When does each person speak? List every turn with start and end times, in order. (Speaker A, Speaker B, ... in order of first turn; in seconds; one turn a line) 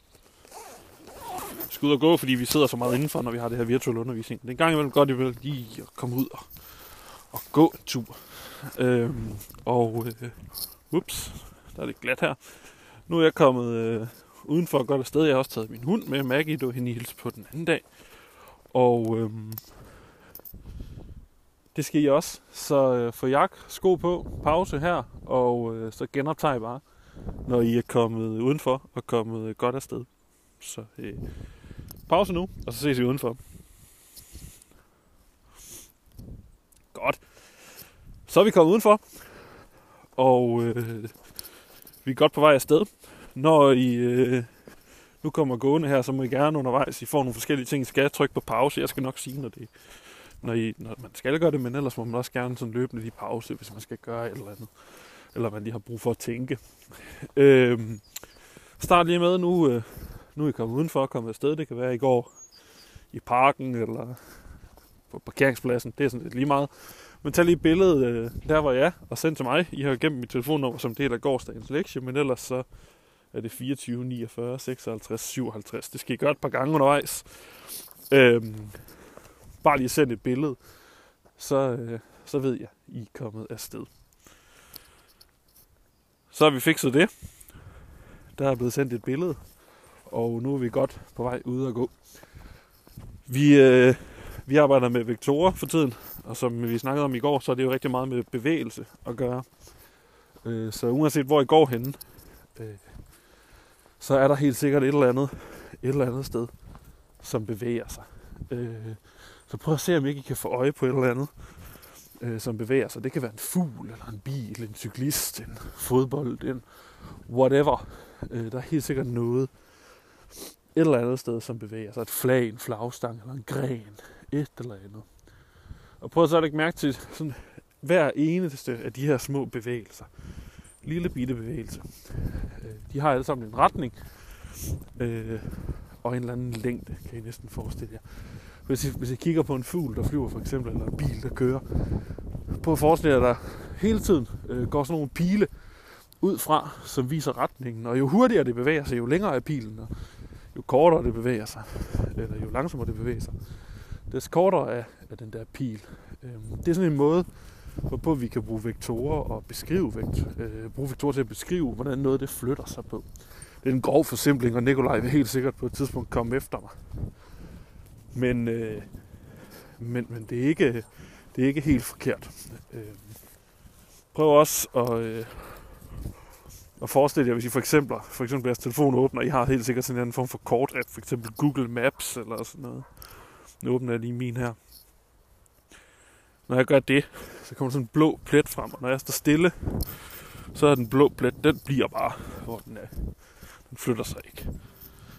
Speaker A: 1.6-19.9
Speaker A: 21.7-33.6
Speaker A: 36.9-41.5
Speaker A: 42.0-84.2
Speaker A: 86.3-92.7
Speaker A: 93.2-106.6
Speaker A: 107.1-120.2
Speaker A: 120.7-167.4
Speaker A: 168.1-176.0
Speaker A: 176.8-184.8
Speaker A: 186.5-194.8